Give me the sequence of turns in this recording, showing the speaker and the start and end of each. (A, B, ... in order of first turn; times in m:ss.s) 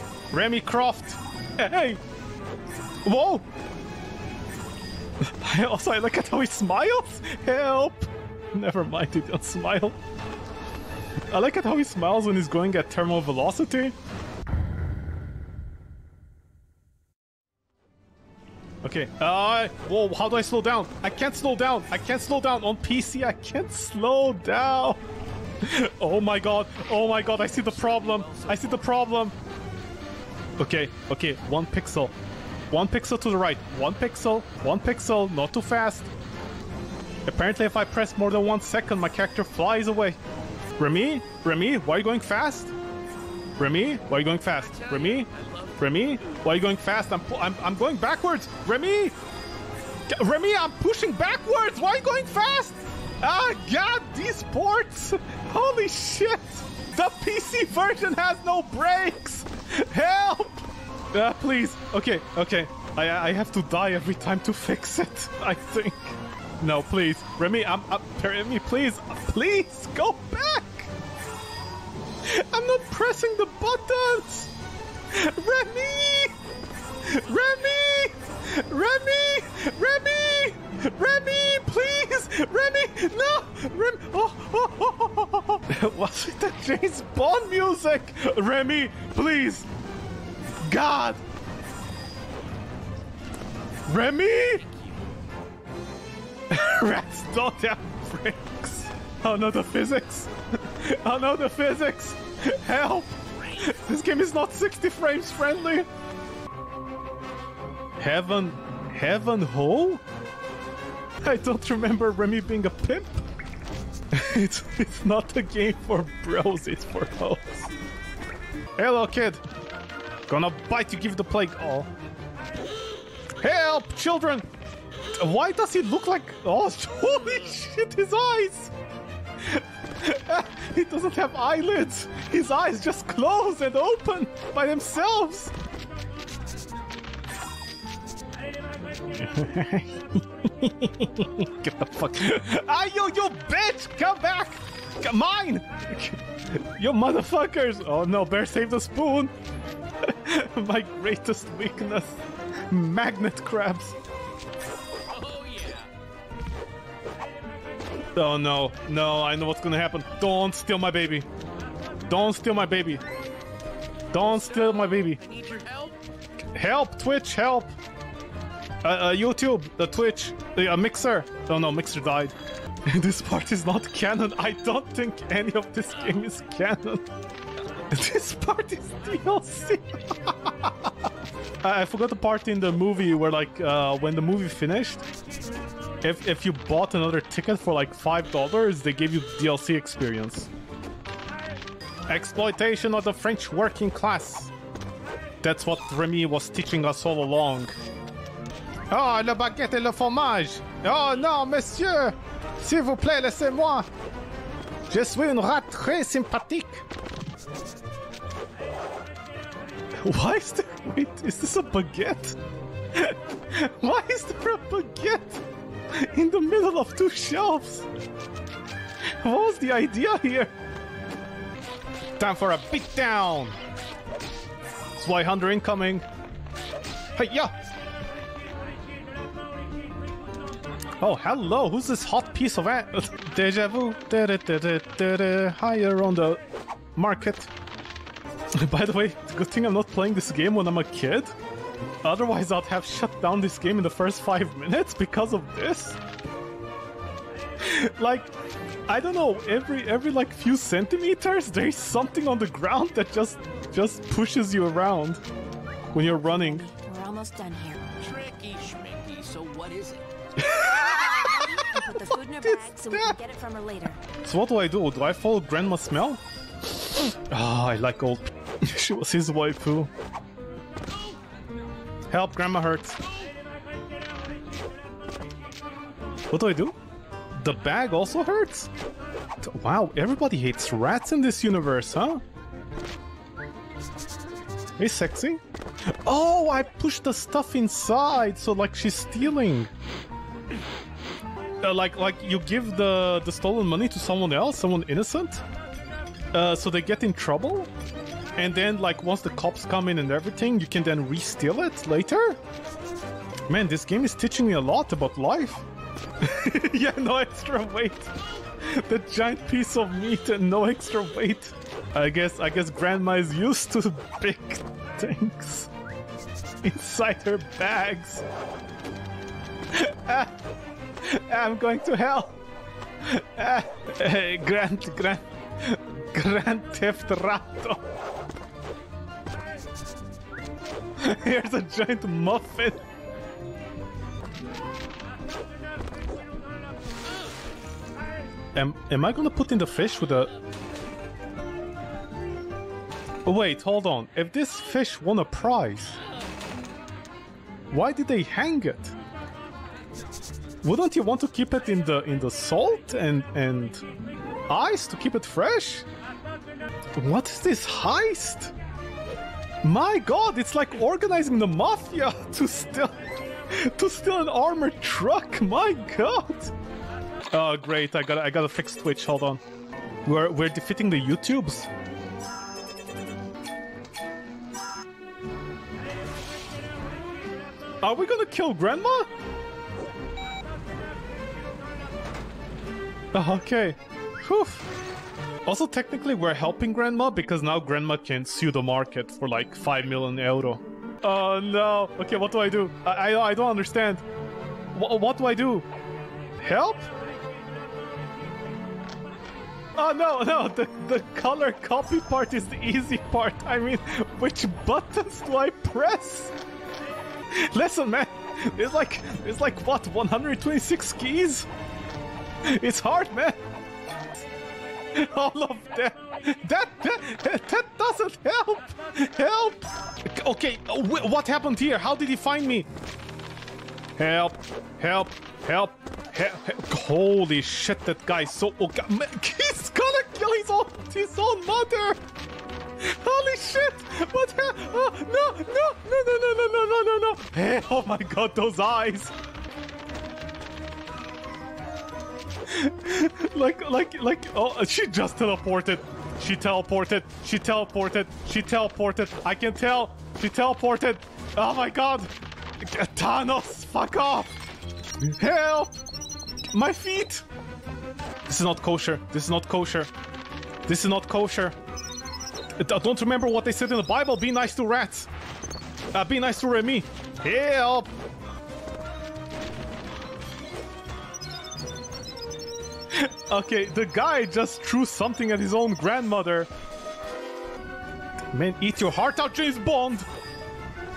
0:00.3-0:02.0 A
0:03.0-0:03.5 A
0:05.2-0:10.0 A
0:11.3-0:13.9 A
0:18.8-0:25.0 A
0:25.6-0:29.3 A
0:27.3-0:29.0 B
0:30.6-0:32.1 A
0:32.7-0:36.1 A
0:37.2-0:40.2 A
0:40.8-0:42.7 A
0:43.6-0:49.1 A
0:44.6-0:46.4 B
0:50.1-1:10.9 A
1:12.2-1:14.5 A
1:15.1-1:16.4 A
1:17.0-1:29.7 A
1:30.6-1:31.2 A
1:33.9-1:34.6 A
1:34.6-1:34.9 B
1:36.5-1:45.9 A
1:43.5-1:43.7 B
1:48.0-1:50.0 A
1:51.2-1:53.2 A
1:54.1-1:57.7 A
1:58.8-1:59.4 A
2:00.3-2:01.9 A
2:03.4-2:04.4 A
2:05.2-2:08.7 A
2:09.4-2:15.5 A
2:19.1-2:29.3 A
2:30.0-2:34.0 A
2:35.1-2:35.9 B
2:38.2-2:41.3 A
2:42.1-2:43.0 A
2:44.1-2:45.2 A
2:44.5-2:46.0 B
2:46.5-2:47.7 A
2:48.8-2:52.3 A
2:52.9-2:57.1 A
2:57.9-3:01.1 A
3:01.6-3:05.0 A
3:06.0-3:10.5 A
3:12.1-3:14.5 A
3:15.4-3:17.7 A
3:18.9-3:23.9 A
3:24.9-3:26.8 A
3:30.0-3:32.4 A
3:32.9-3:37.9 A
3:39.2-3:40.5 A
3:42.2-3:43.6 A
3:45.0-3:46.0 A
3:47.1-3:47.5 A
3:51.0-3:56.4 A
3:56.9-3:57.5 A
3:58.5-4:01.3 A
4:02.0-4:06.0 A
4:07.6-4:08.3 A
4:08.9-4:15.2 A
4:15.9-4:16.7 A
4:16.2-4:17.8 C
4:18.0-4:20.0 B
4:20.4-4:23.2 A
4:20.9-4:24.0 C
4:24.2-4:29.9 A
4:32.1-4:33.0 A
4:36.3-4:36.8 A
4:37.3-4:38.7 A
4:39.4-4:42.2 A
4:44.8-4:45.4 A
4:46.0-4:49.7 A
4:51.6-4:55.4 A
4:56.3-4:57.7 A
4:58.4-5:02.4 A
5:03.5-5:05.6 A
5:06.2-5:15.7 A
5:16.6-5:18.2 A
5:19.7-5:20.4 A
5:21.0-5:22.4 A
5:23.0-5:27.8 A
5:31.0-5:32.8 A
5:38.5-5:40.3 A
5:43.2-5:46.0 A
5:47.7-5:48.9 A
5:50.6-5:53.8 A
5:54.5-5:55.8 A
5:57.0-5:58.5 A
5:59.6-6:03.0 A
6:03.5-6:06.5 A
6:07.3-6:09.4 A
6:10.0-6:11.7 A
6:17.8-6:19.1 A
6:23.1-6:24.7 A
6:25.4-6:34.0 A
6:34.7-6:35.7 A
6:36.4-6:36.9 A
6:39.8-6:46.3 A
6:47.3-6:51.5 A
6:52.4-6:53.4 A
6:54.9-7:02.7 A
7:04.0-7:12.0 A
7:12.8-7:19.1 A
7:22.5-7:34.5 A
7:35.0-7:35.8 A
7:36.5-7:37.2 A
7:38.2-7:39.9 A
7:40.6-7:41.6 A
7:42.6-7:45.1 A
7:45.9-7:47.9 A
7:52.9-7:56.5 A
7:58.3-8:00.1 A